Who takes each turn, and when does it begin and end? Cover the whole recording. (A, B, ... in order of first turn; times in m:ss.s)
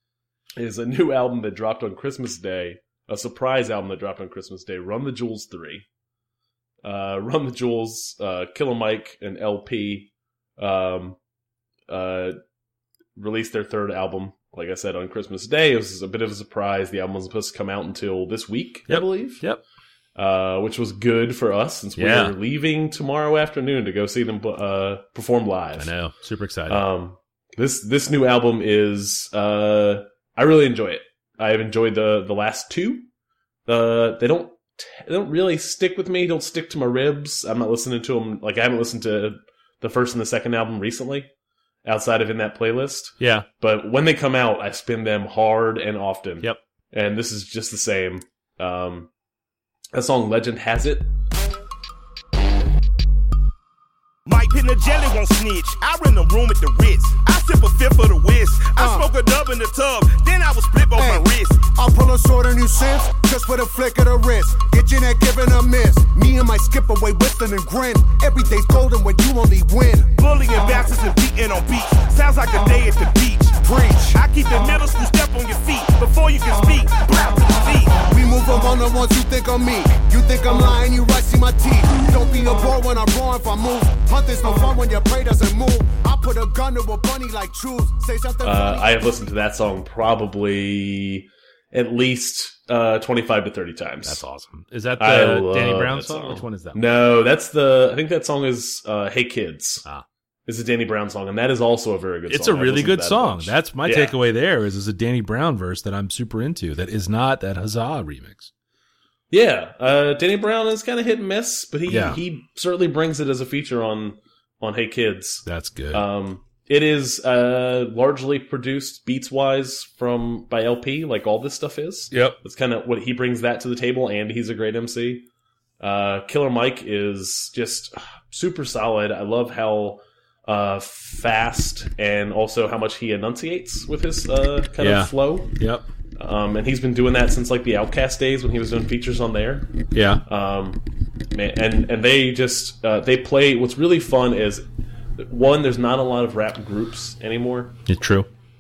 0:00.6-0:05.8 A
0:06.8-0:11.2 A
0:11.9-0:12.4 A
0:13.2-0:19.4 A
0:18.9-0:19.6 B
0:20.2-0:25.9 A
0:22.0-0:22.4 B
0:25.8-0:26.8 B
0:26.7-0:33.1 A
0:33.7-0:41.3 A
0:41.8-0:49.1 A
0:43.2-0:43.5 B
0:49.9-0:51.1 A
0:54.3-1:01.7 C
0:58.8-0:59.1 D
1:00.9-1:10.2 D
1:10.1-1:18.1 C
1:13.6-1:14.2 D
1:18.1-1:28.9 D
1:28.4-1:34.2 A
1:34.0-1:36.8 B
1:35.0-1:39.8 A
1:40.5-1:44.2 A
1:42.3-1:48.5 B
1:49.3-2:05.2 A
1:51.9-1:52.2 B
1:55.5-1:56.1 B
2:02.1-2:02.4 B
2:05.8-2:15.5 A
2:14.8-2:15.9 B
2:16.2-2:19.7 A
2:19.9-2:20.2 B
2:20.3-2:20.8 A
2:21.3-2:24.6 A
2:25.2-2:27.8 A
2:27.9-2:28.3 B